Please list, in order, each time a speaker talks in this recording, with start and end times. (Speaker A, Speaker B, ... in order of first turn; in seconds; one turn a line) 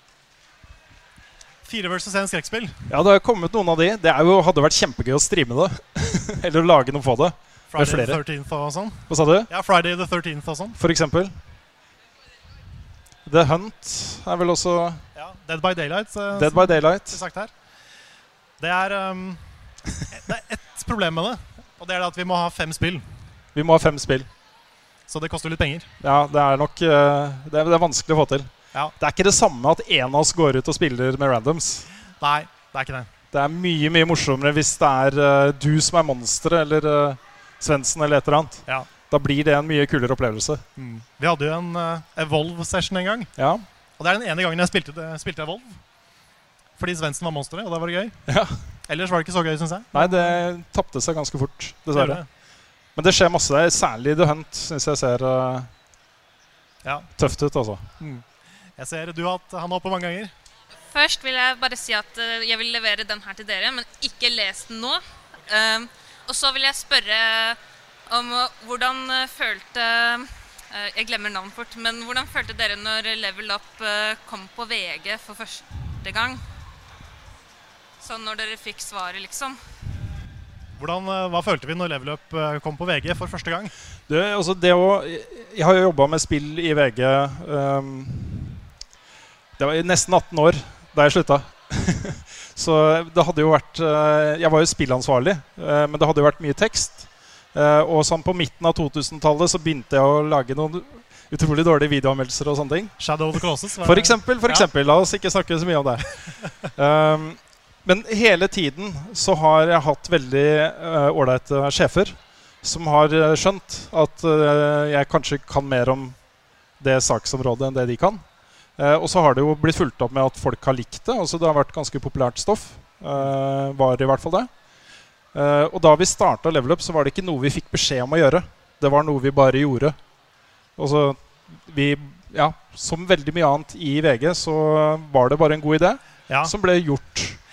Speaker A: 1.6-2.8
Speaker B: 2.9-8.2
Speaker A: 7.7-10.8
Speaker B: 9.1-9.5
Speaker B: 10.8-11.3
Speaker B: 13.3-15.0
Speaker A: 15.1-17.5
Speaker B: 16.3-17.2
Speaker A: 18.6-19.4
Speaker A: 20.1-23.1
Speaker B: 23.6-24.3
Speaker A: 25.1-25.9
Speaker B: 26.0-31.9
Speaker A: 32.2-33.1
Speaker B: 33.3-40.6
Speaker A: 40.8-43.3
Speaker B: 43.4-43.6
Speaker A: 44.0-45.8
Speaker A: 46.8-48.2
Speaker B: 48.3-48.5
Speaker A: 48.9-50.4
Speaker B: 49.9-52.2
Speaker A: 51.9-52.2
Speaker B: 53.0-55.7
Speaker A: 56.8-57.1
Speaker B: 57.2-57.9
Speaker A: 58.8-60.3
Speaker C: 60.9-67.6
Speaker C: 68.1-76.4
Speaker C: 78.0-79.6
Speaker A: 80.8-83.7
Speaker B: 84.1-88.6
Speaker B: 89.6-102.9
Speaker A: 103.0-104.7
Speaker B: 103.8-106.1
Speaker B: 106.8-116.2
Speaker B: 116.8-118.2
Speaker B: 118.8-124.5
Speaker B: 125.3-129.9
Speaker B: 130.8-137.4